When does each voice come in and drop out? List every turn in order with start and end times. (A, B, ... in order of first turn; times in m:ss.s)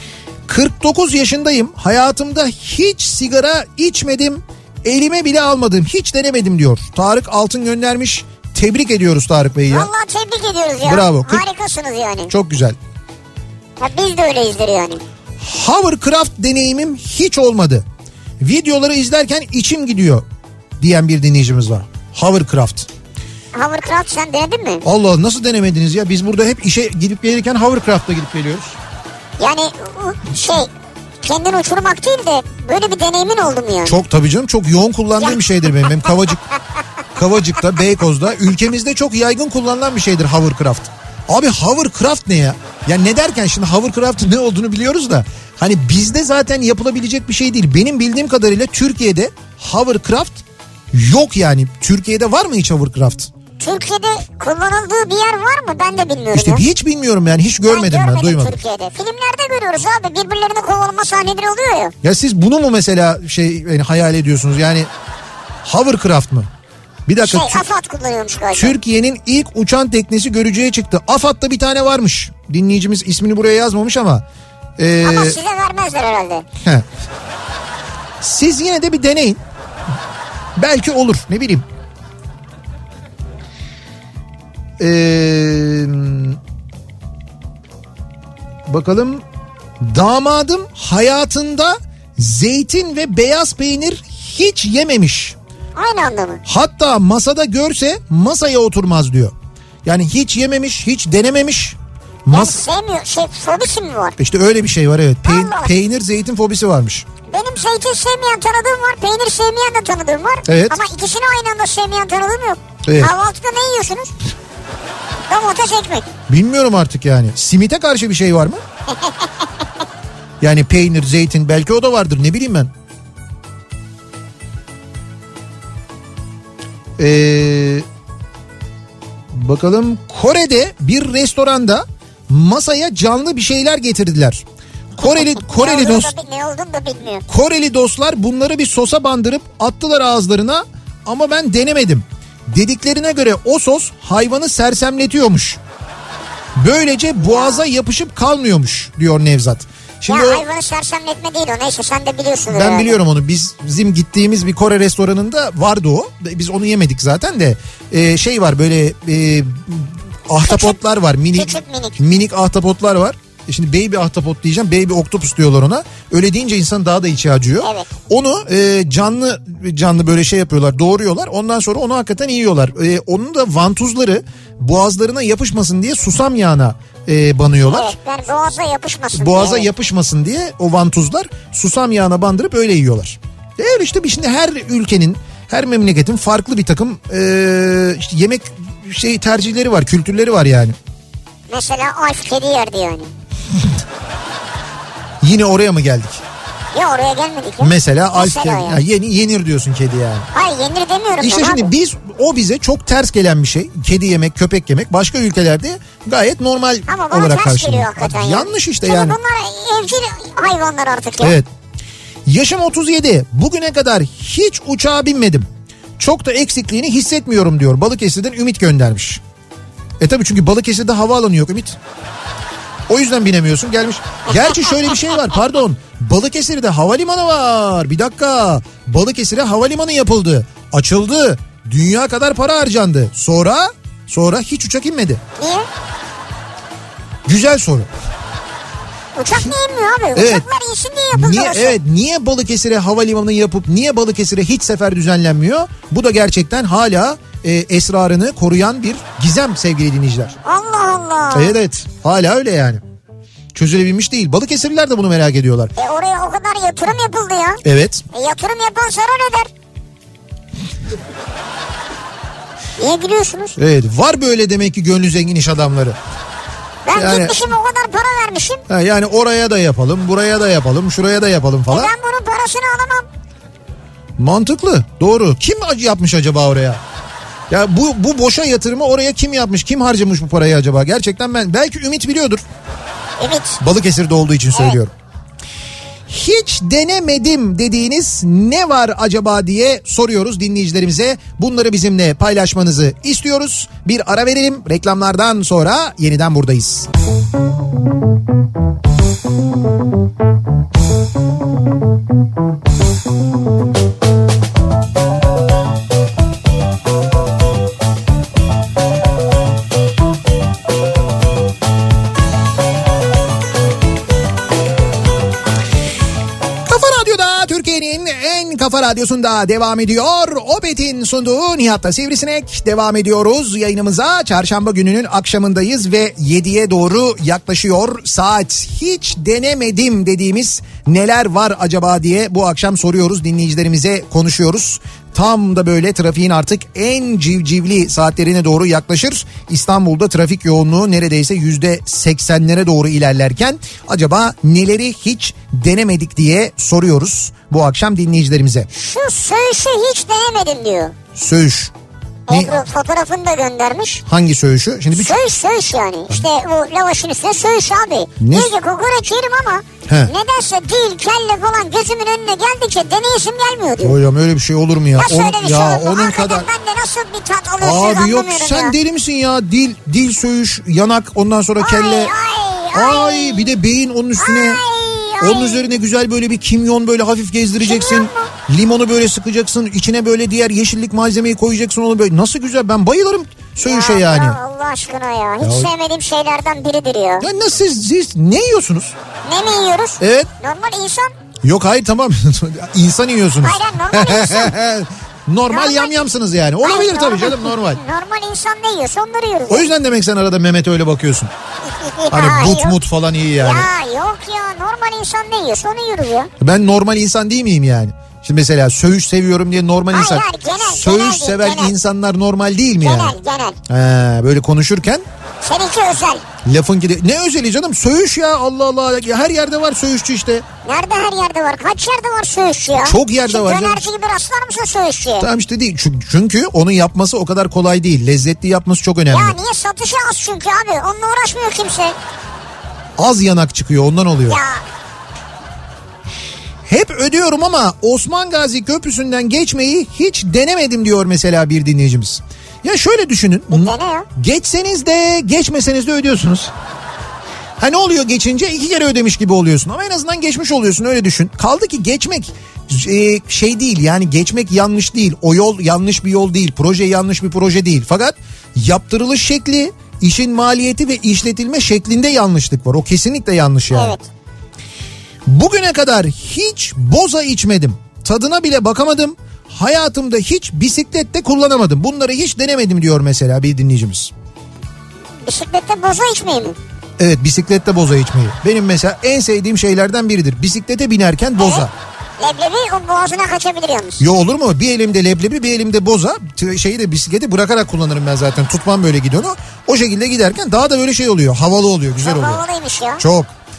0:00.5-0:09.9 A
0:09.7-0:12.3 B
0:10.8-0:11.5 A
0:12.3-0:12.8 A
0:13.8-0:15.0 B
0:15.4-0:17.8 A
0:18.4-0:20.2 A
0:20.8-0:22.9 A
0:23.6-0:24.8 B
0:24.8-0:28.8 A
0:29.4-0:30.7 B
0:31.2-0:34.0 B
0:33.8-0:36.4 A
0:37.2-0:53.3 A
0:53.6-0:56.6 B
0:56.3-0:58.6 A
0:57.7-1:01.9 B
1:02.0-1:04.9 A
1:05.6-1:06.5 A
1:07.1-1:07.7 A
1:07.2-1:08.8 B
1:08.5-1:14.2 A
1:14.8-1:15.4 A
1:15.0-1:16.4 B
1:18.2-1:19.4 A
1:20.6-1:21.6 A
1:24.8-1:26.4 A
1:28.7-1:29.2 A
1:29.8-1:35.4 A
1:35.8-1:36.4 B
1:36.5-1:39.3 A
1:39.8-1:42.6 A
1:42.3-1:44.2 B
1:44.2-1:47.1 A
1:45.2-1:45.7 B
1:47.3-1:54.1 B
1:50.5-1:50.8 A
1:52.8-1:53.1 A
1:55.3-1:56.1 B
1:56.3-1:58.6 A
1:59.0-1:59.3 B
2:00.4-2:02.7 A
2:07.0-2:07.9 A
2:09.3-2:14.4 A
2:15.0-2:16.1 A
2:15.0-2:17.2 B
2:17.3-2:25.6 A
2:26.6-2:30.4 A
2:27.2-2:27.6 B
2:30.1-2:33.0 B
2:32.5-2:58.0 A
2:40.4-2:40.8 B
2:41.3-2:42.0 B
2:47.6-2:47.9 B
2:57.7-2:59.7 B
2:59.1-3:10.8 A
3:11.5-3:13.1 B
3:15.2-3:16.2 A
3:16.7-3:18.8 B
3:17.6-3:20.3 A
3:20.3-3:21.7 B
3:21.2-3:29.2 A
3:26.9-3:31.4 B
3:31.2-3:31.5 A
3:32.3-3:39.2 A
3:40.0-3:41.8 A
3:42.9-3:55.2 A
3:55.4-3:55.7 B
3:57.3-3:57.9 A
3:59.2-4:01.8 B
4:00.2-4:00.4 A
4:01.1-4:10.4 A
4:10.4-4:11.5 B
4:11.3-4:12.8 A
4:13.6-4:15.7 A
4:15.8-4:19.5 B
4:17.6-4:18.0 A
4:22.8-4:23.6 B
4:23.6-4:26.0 A
4:26.9-4:28.6 B
4:27.0-4:27.4 A
4:28.7-4:31.9 A
4:31.7-4:33.1 B
4:34.2-4:36.8 A
4:37.5-4:42.4 A
4:43.2-4:43.6 B
4:43.6-4:44.9 A
4:46.1-4:56.9 A
5:16.7-5:48.7 A
5:48.7-5:51.0 B
5:51.2-5:51.7 A
5:52.3-5:54.0 B
5:52.3-5:52.6 A
5:54.0-5:55.2 A
5:54.9-6:04.0 B
5:58.2-5:58.5 A
5:59.9-6:00.1 A
6:03.8-6:06.5 A
6:05.0-6:08.8 B
6:07.6-6:12.1 A
6:11.6-6:13.5 B
6:12.7-6:14.6 A
6:14.2-6:15.7 B
6:15.2-6:24.4 A
6:17.6-6:18.3 B
6:23.6-6:27.3 B
6:25.4-6:25.7 A
6:27.2-6:29.0 A
6:29.2-6:31.1 B
6:30.0-6:30.3 A
6:31.4-6:37.8 A
6:33.4-6:34.6 B
6:35.5-6:36.1 B
6:36.6-6:39.7 B
6:39.5-6:41.3 A
6:41.7-6:42.8 B
6:42.1-6:43.7 A
6:43.4-6:46.3 B
6:46.4-6:53.2 A
6:49.9-6:51.7 B
6:52.8-6:53.6 B
6:53.7-6:55.0 A
6:55.4-6:56.2 B
6:56.4-7:00.4 A
7:00.6-7:05.3 B
7:02.8-7:03.9 A
7:05.2-7:09.4 A
7:09.1-7:12.0 B
7:13.0-7:14.4 A
7:14.3-7:14.6 B
7:16.7-7:26.5 A
7:23.5-7:24.1 B
7:27.6-7:44.0 A
7:43.7-7:44.1 B
7:45.3-7:54.1 A
7:55.2-7:56.6 B
7:57.0-8:01.7 A
8:01.4-8:01.7 B
8:02.2-8:04.0 B
8:04.0-8:12.4 A
8:12.0-8:13.0 B
8:13.0-8:13.3 A